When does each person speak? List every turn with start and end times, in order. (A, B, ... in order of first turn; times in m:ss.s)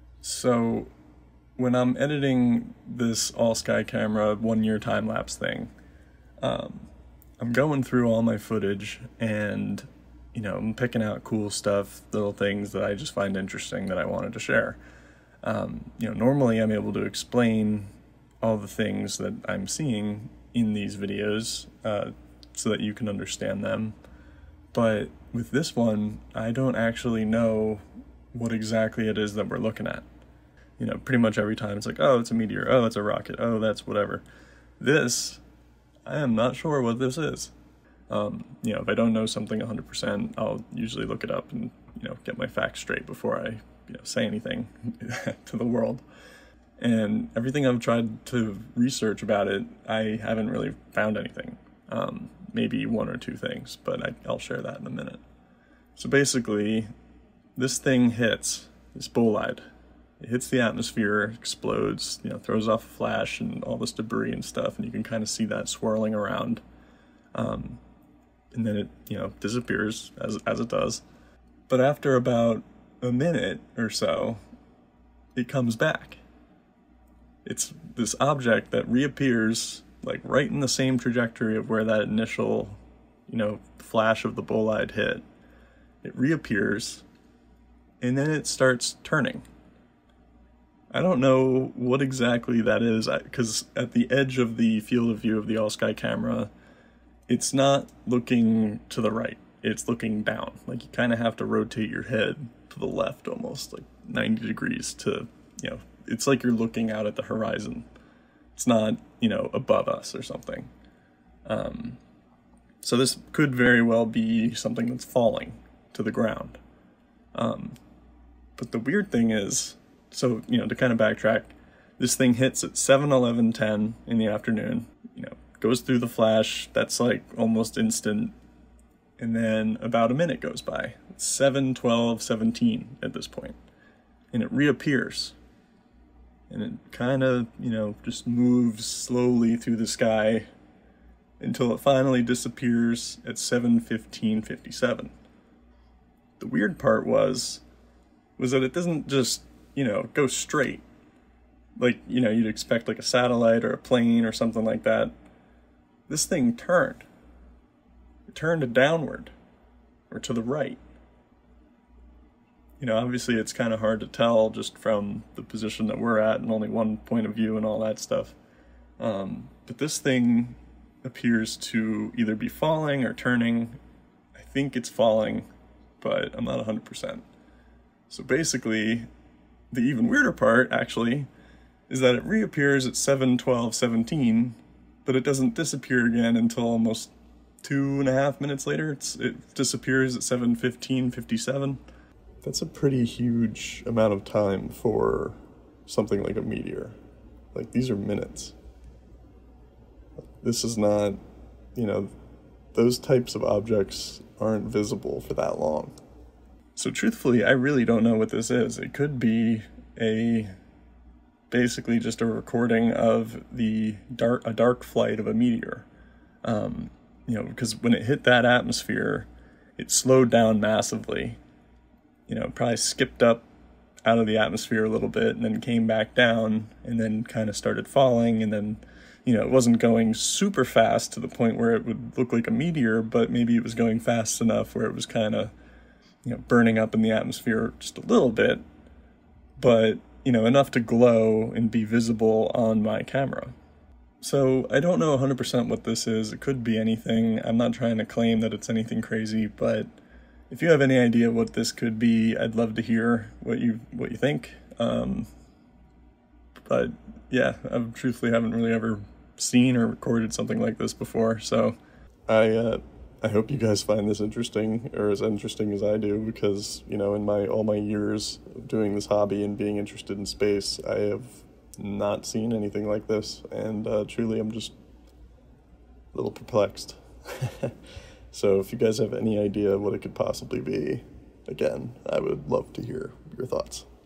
0:00.2-0:00.9 A
0:01.6-0:05.7 A
0:06.4-0:14.8 A
0:15.4-0:17.9 A
0:18.4-0:23.9 A
0:24.7-0:27.8 A
0:28.3-0:30.0 A
0:30.8-0:34.2 A
0:34.8-0:35.4 A
0:36.0-0:37.5 A
0:38.1-0:46.0 A
0:46.8-0:55.2 A
0:56.0-0:56.9 A
0:57.6-0:59.6 A
1:00.2-1:06.6 A
1:07.3-1:07.8 A
1:08.5-1:11.0 A
1:11.7-1:14.4 A
1:15.3-1:16.2 A
1:17.4-1:25.2 A
1:26.0-1:27.0 A
1:28.0-1:29.4 A
1:30.9-1:36.5 A
1:37.3-1:47.9 A
1:48.5-1:50.7 A
1:51.4-1:52.0 A
1:52.8-1:56.6 A
1:57.3-1:57.8 A
1:58.6-2:08.3 A
2:09.2-2:13.6 A
2:14.3-2:15.4 A
2:16.5-2:20.5 A
2:21.4-2:25.1 A
2:26.4-2:27.6 A
2:28.4-2:30.8 A
2:31.8-2:35.1 A
2:36.1-2:37.0 A
2:38.3-2:39.3 A
2:40.1-2:40.8 A
2:42.8-2:48.4 A
2:49.0-2:53.8 A
2:54.4-2:55.5 A
2:56.0-2:57.2 A
2:58.1-2:59.1 A
2:59.7-3:01.3 A
3:01.9-3:11.8 A
3:12.4-3:17.0 A
3:17.5-3:18.5 A
3:20.4-3:21.2 A
3:21.7-3:22.1 A
3:22.7-3:25.9 A
3:26.8-3:30.5 A
3:31.5-3:35.9 A
3:36.4-3:41.4 A
3:42.3-3:43.4 A
3:44.0-3:55.5 A
3:56.2-3:58.6 A
3:59.6-4:03.5 A
4:04.2-4:09.9 A
4:10.5-4:15.3 A
4:16.7-4:21.8 A
4:22.3-4:34.7 A
4:36.1-4:37.8 A
4:38.3-4:43.9 A